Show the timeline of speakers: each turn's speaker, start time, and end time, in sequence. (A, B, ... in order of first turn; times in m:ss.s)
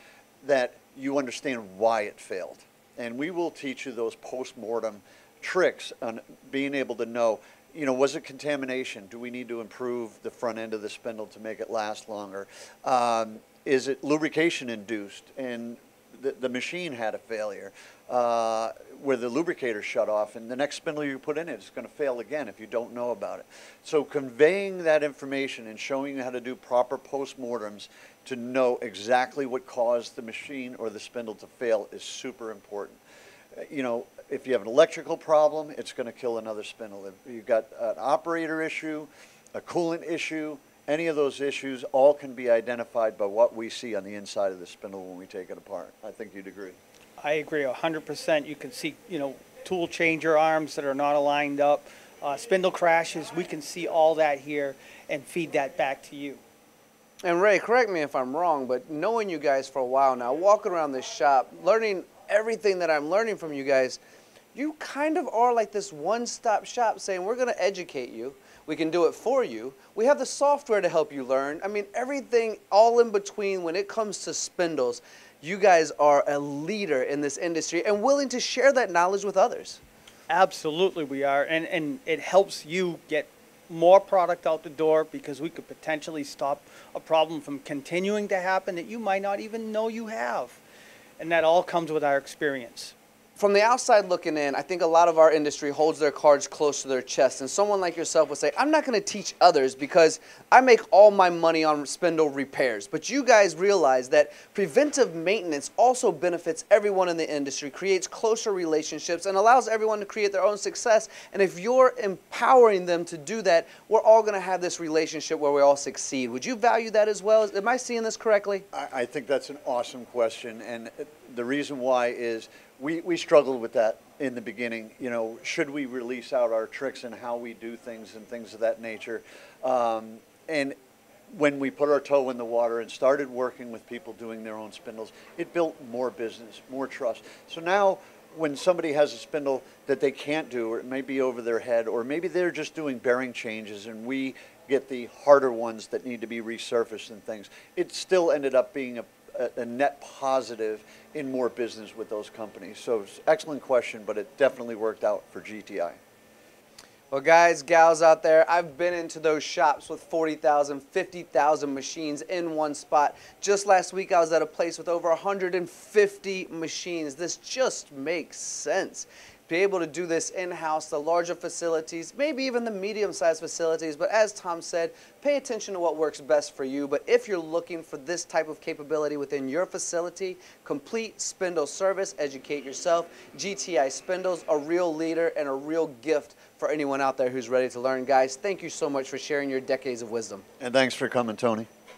0:00.4-0:33.0 A
0:33.6-0:46.8 A
0:47.2-0:56.4 B
0:57.2-1:04.0 C
1:04.5-1:19.8 C
1:20.3-1:30.6 B
1:31.2-1:33.0 B
1:33.4-1:58.6 C
1:58.7-2:10.8 A
2:11.3-2:36.0 A
2:37.1-3:10.4 C
3:10.6-3:11.7 A